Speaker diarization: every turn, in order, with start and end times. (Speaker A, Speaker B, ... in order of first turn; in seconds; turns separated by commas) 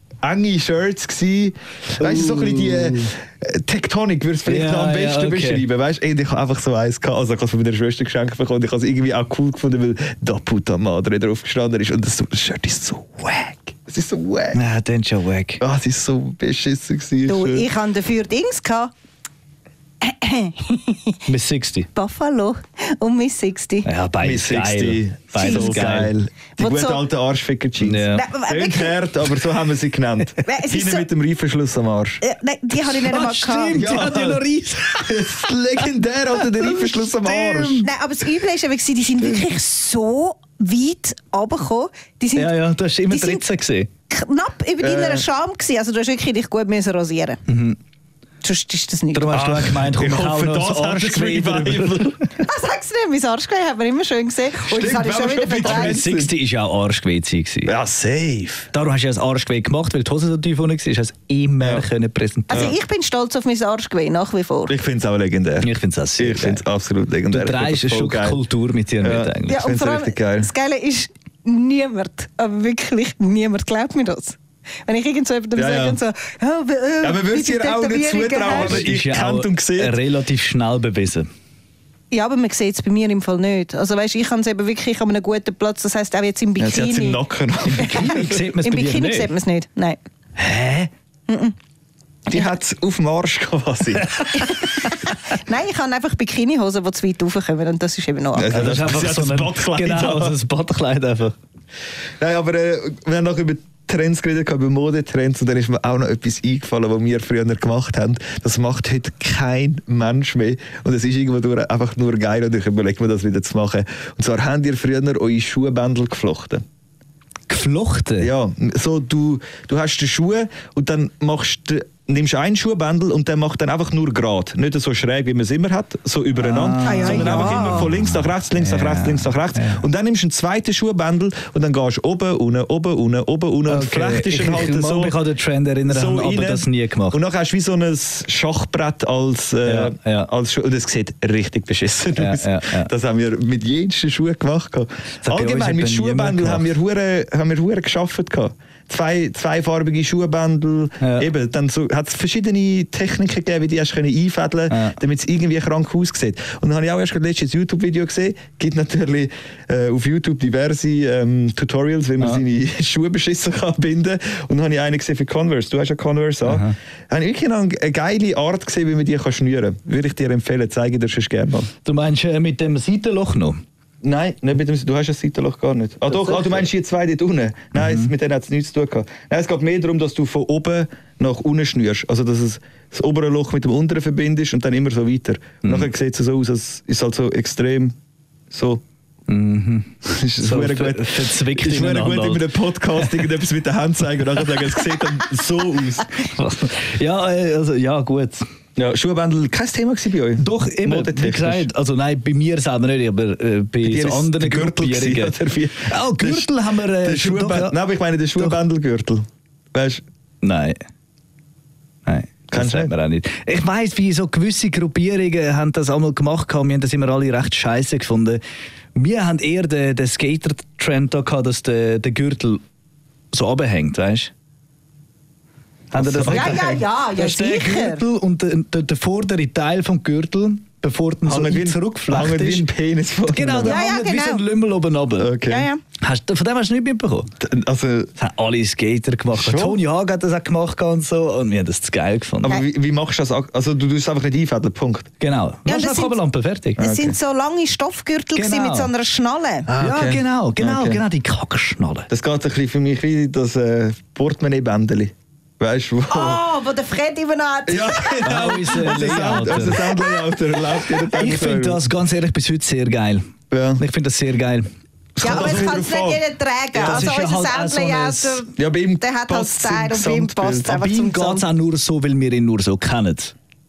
Speaker A: 0.2-14.6, Speaker B: 2.0-3.1, Speaker B: 4.5-5.7, Speaker B: 14.5-15.6, Speaker A: 15.6-17.7, Speaker C: 17.3-18.9, Speaker C: 20.0-21.2, Speaker B: 21.3-21.9, Speaker C: 21.9-23.9, Speaker B: 23.8-26.1, Speaker A: 24.2-32.2, Speaker C: 25.4-25.8, Speaker C: 26.6-27.0, Speaker B: 27.8-28.3, Speaker C: 28.1-29.0, Speaker C: 30.4-31.1, Speaker C: 32.2-34.0, Speaker B: 32.8-35.6, Speaker A: 33.7-34.4, Speaker A: 35.0-37.9, Speaker B: 36.4-37.9, Speaker C: 37.8-43.4, Speaker B: 42.4-43.9, Speaker C: 44.1-47.4, Speaker A: 44.8-45.2, Speaker B: 47.5-47.8, Speaker C: 48.4-49.4, Speaker B: 49.1-52.2, Speaker A: 49.3-52.1, Speaker C: 52.4-56.0, Speaker A: 54.7-56.4, Speaker B: 55.6-57.7, Speaker A: 57.7-58.7, Speaker B: 58.7-62.8, Speaker A: 61.6-61.9, Speaker A: 62.5-62.8, Speaker C: 62.5-64.8, Speaker A: 64.7-68.4, Speaker B: 65.6-66.6, Speaker B: 67.3-69.6, Speaker A: 69.0-70.5, Speaker C: 69.5-78.8, Speaker A: 75.6-76.0, Speaker A: 77.0-80.0, Speaker B: 78.5-81.3, Speaker C: 82.1-90.0, Speaker A: 86.6-88.5, Speaker B: 87.9-89.3, Speaker B: 90.4-90.9, Speaker C: 91.3-91.5, Speaker A: 92.3-94.3, Speaker B: 94.2-94.8, Speaker C: 94.3-98.6, Speaker A: 98.3-100.4, Speaker B: 98.5-101.3, Speaker A: 102.2-116.6, Speaker B: 117.5-118.3, Speaker A: 118.2-135.2, Speaker B: 126.3-129.8, Speaker C: 126.8-127.9, Speaker B: 133.7-137.2, Speaker A: 135.9-171.7, Speaker B: 139.7-140.3, Speaker B: 142.2-142.9, Speaker B: 145.2-146.7, Speaker B: 151.0-151.3, Speaker B: 154.7-155.0, Speaker B: 166.4-166.7, Speaker B: 171.8-173.6, Speaker A: 174.0-187.9, Speaker B: 176.1-176.7, Speaker B: 177.7-178.1, Speaker B: 185.6-185.9, Speaker A: 188.5-188.8, Speaker B: 189.3-192.4, Speaker A: 190.1-196.1, Speaker B: 193.0-193.2, Speaker B: 196.2-198.4, Speaker A: 198.8-201.7, Speaker B: 200.4-207.8, Speaker A: 203.8-210.0, Speaker B: 208.4-208.6, Speaker B: 210.4-210.8, Speaker B: 212.1-218.4, Speaker A: 212.5-212.9, Speaker B: 219.0-222.6, Speaker B: 223.3-224.3, Speaker B: 225.9-232.7, Speaker A: 225.9-226.8, Speaker C: 226.3-228.0, Speaker A: 231.2-233.8, Speaker B: 233.3-235.3, Speaker C: 233.6-234.4, Speaker A: 235.2-235.7, Speaker C: 235.5-235.8, Speaker B: 236.0-237.3, Speaker A: 237.4-238.1, Speaker B: 238.2-242.6, Speaker A: 239.3-239.8, Speaker A: 242.4-245.1, Speaker B: 245.2-246.8, Speaker C: 245.7-246.2, Speaker A: 246.8-247.2, Speaker C: 246.8-249.7, Speaker B: 248.3-248.9, Speaker A: 249.7-251.0, Speaker B: 249.7-252.1, Speaker A: 252.1-256.5, Speaker C: 256.1-261.1, Speaker A: 257.7-261.8, Speaker B: 258.2-259.9, Speaker B: 261.2-263.2, Speaker A: 263.5-263.8, Speaker B: 263.8-264.7, Speaker A: 265.2-266.2, Speaker C: 265.2-271.5, Speaker B: 265.2-265.7, Speaker A: 266.8-267.1, Speaker B: 266.8-268.4, Speaker A: 268.6-270.9, Speaker B: 270.8-273.3